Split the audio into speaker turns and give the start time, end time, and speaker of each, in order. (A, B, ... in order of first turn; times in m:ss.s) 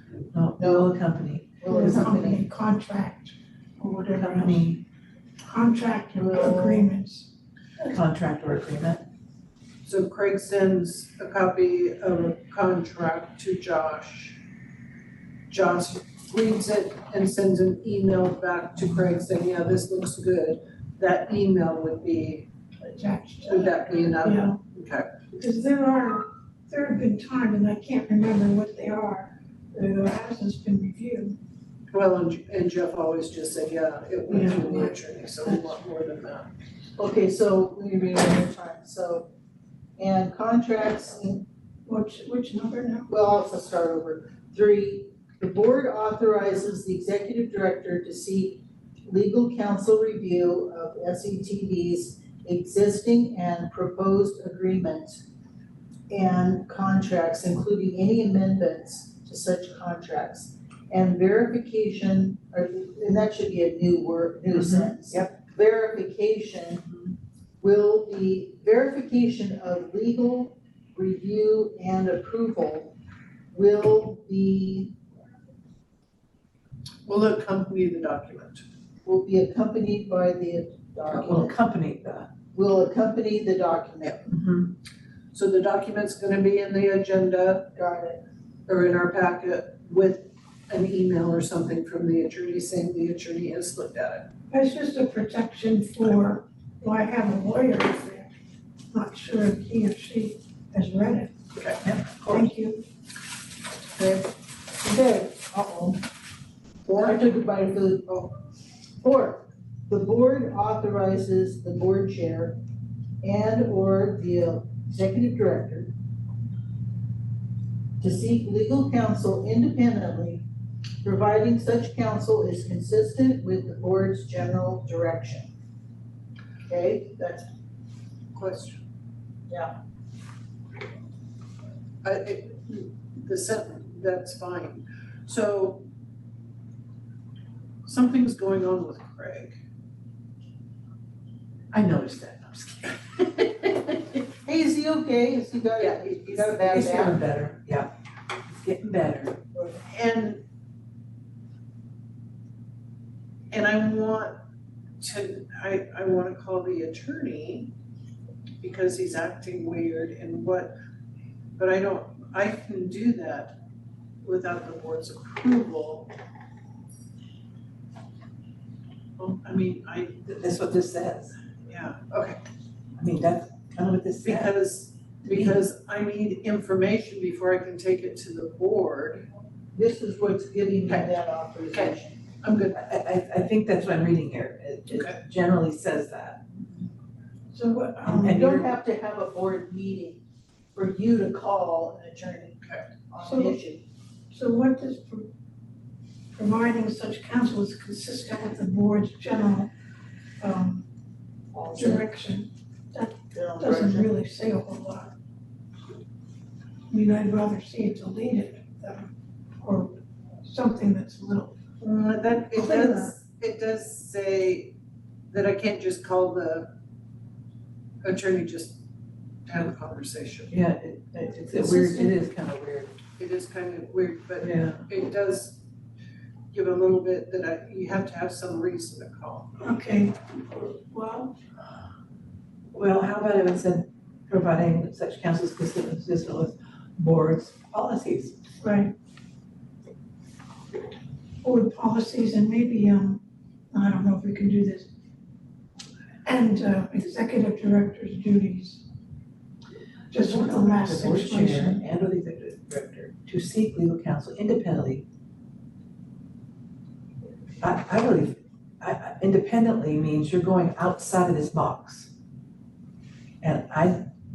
0:00.3-0:02.2 A
0:00.6-0:00.9 B
0:01.6-0:02.4 B
0:01.7-0:04.7 C
0:04.1-0:04.8 A
0:05.4-0:07.3 C
0:06.1-0:06.9 B
0:07.8-0:09.0 A
0:09.8-0:14.4 D
0:15.5-0:22.5 D
0:22.8-0:24.6 C
0:23.5-0:25.1 D
0:25.3-0:31.4 C
0:31.9-0:36.5 D
0:34.3-0:34.9 C
0:37.0-0:39.3 B
0:40.0-0:41.4 B
0:41.8-0:43.1 C
0:43.1-0:55.2 B
0:56.1-1:06.8 B
1:04.5-1:05.3 A
1:07.6-1:12.9 B
1:13.5-1:15.0 B
1:17.0-1:18.6 D
1:19.0-1:21.6 B
1:21.1-1:22.3 A
1:22.5-1:24.3 B
1:24.2-1:24.7 A
1:25.3-1:27.7 D
1:27.7-1:28.2 B
1:28.7-1:34.3 D
1:34.5-1:38.3 C
1:38.9-1:41.3 C
1:42.2-1:42.8 C
1:44.0-1:44.3 B
1:44.8-1:46.0 B
1:46.8-1:47.1 D
1:46.9-1:48.4 B
1:49.0-1:52.6 B
1:53.2-1:55.9 B
1:58.0-2:00.4 B
2:01.0-2:05.5 B
2:06.7-2:07.5 B
2:08.3-2:08.8 D
2:09.5-2:09.7 B
2:12.0-2:15.8 D
2:17.8-2:19.6 D
2:21.7-2:24.2 A
2:24.4-2:27.2 B
2:25.8-2:26.6 D
2:26.6-2:27.9 A
2:28.5-2:29.4 A
2:29.9-2:30.4 D
2:33.5-2:34.4 D
2:35.0-2:37.7 D
2:38.6-2:40.7 D
2:41.5-2:43.6 D
2:44.2-2:46.1 D
2:49.2-2:50.2 D
2:50.2-2:51.4 A
2:51.7-2:52.4 D
2:53.0-2:54.5 A
2:54.2-2:59.2 D
2:59.7-3:02.2 B
3:01.7-3:02.8 D
3:02.7-3:06.4 A
3:07.5-3:08.6 C
3:08.1-3:10.2 B
3:08.2-3:08.6 A
3:10.7-3:13.8 B
3:12.6-3:12.9 D
3:13.2-3:13.6 C
3:14.3-3:15.3 C
3:16.3-3:19.7 C
3:20.4-3:20.8 C
3:21.5-3:22.0 B
3:21.7-3:25.1 C
3:23.3-3:24.1 B
3:26.9-3:31.5 C
3:31.8-3:34.7 D
3:32.5-3:33.1 C
3:35.3-3:36.7 D
3:38.0-3:38.8 D
3:39.4-3:40.5 D
3:40.5-3:43.0 A
3:41.6-3:42.1 C
3:43.2-3:45.6 D
3:44.4-3:44.9 A
3:46.5-3:49.5 D
3:49.6-3:51.3 C
3:52.7-3:58.4 A
3:58.6-3:58.9 C
4:01.4-4:04.9 C
4:06.2-4:08.8 C
4:10.1-4:11.8 C
4:10.2-4:15.0 A
4:17.6-4:22.1 A
4:23.4-4:24.0 A